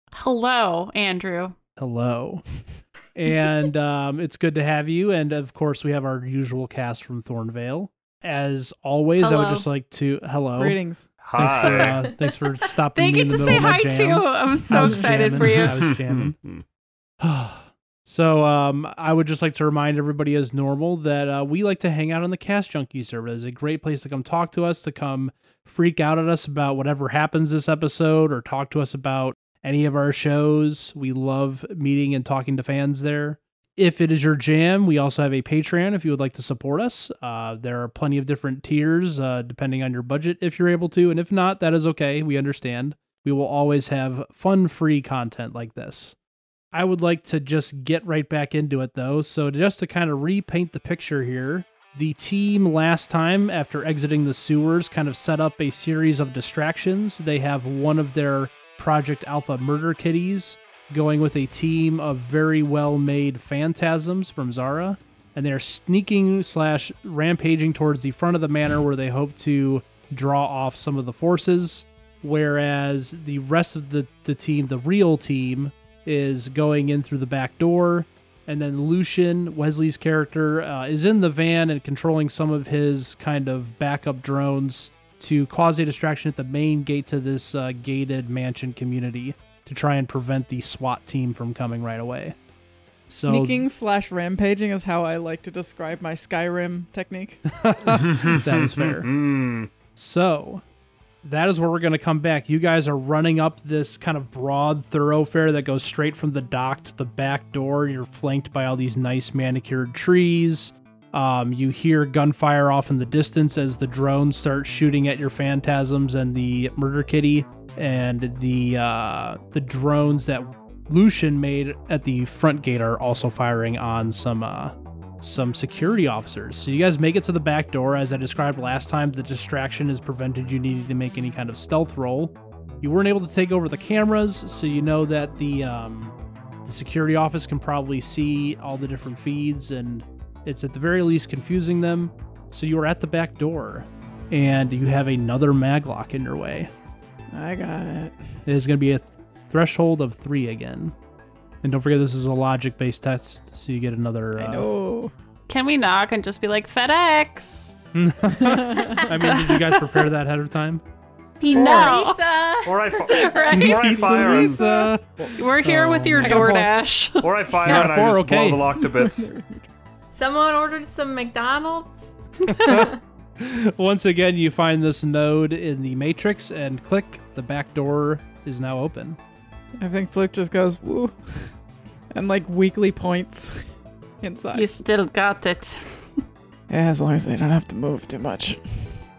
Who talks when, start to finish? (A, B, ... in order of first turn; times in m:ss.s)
0:00.1-0:01.5 A
0:01.8-0:02.4 B
0:03.1-0:10.8 B
0:09.2-0:09.6 C
0:10.6-0:11.1 D
0:11.2-0:12.1 E
0:11.4-0:16.4 B
0:12.0-0:12.4 C
0:12.9-0:15.8 A
0:15.3-0:16.6 E
0:17.2-0:46.2 B
0:46.7-1:32.4 B
1:33.1-1:33.6 B
1:33.2-1:37.4 D
1:37.5-1:39.1 B
1:37.9-1:39.7 E
1:39.9-1:40.6 B
1:41.2-2:26.7 B
2:27.3-2:28.1 D
2:28.4-2:30.9 B
2:31.6-2:34.7 B
2:34.4-2:35.1 D
2:35.5-2:37.7 A
2:37.9-2:40.8 B
2:38.3-2:39.1 D
2:39.3-2:39.8 A
2:41.4-2:43.4 C
2:41.5-2:42.2 A
2:41.5-2:42.1 D
2:42.6-2:44.6 E
2:43.0-2:44.4 A
2:43.5-2:46.6 B
2:44.3-2:45.4 D
2:45.3-2:47.3 A
2:46.2-2:46.7 D
2:47.2-2:49.3 E
2:47.6-2:48.8 B
2:49.0-2:49.7 D
2:50.1-2:53.0 C
2:52.5-2:59.2 B
2:59.8-3:01.5 D
3:02.1-3:03.7 D
3:04.2-3:04.8 D
3:04.5-3:06.2 A
3:06.7-3:08.9 D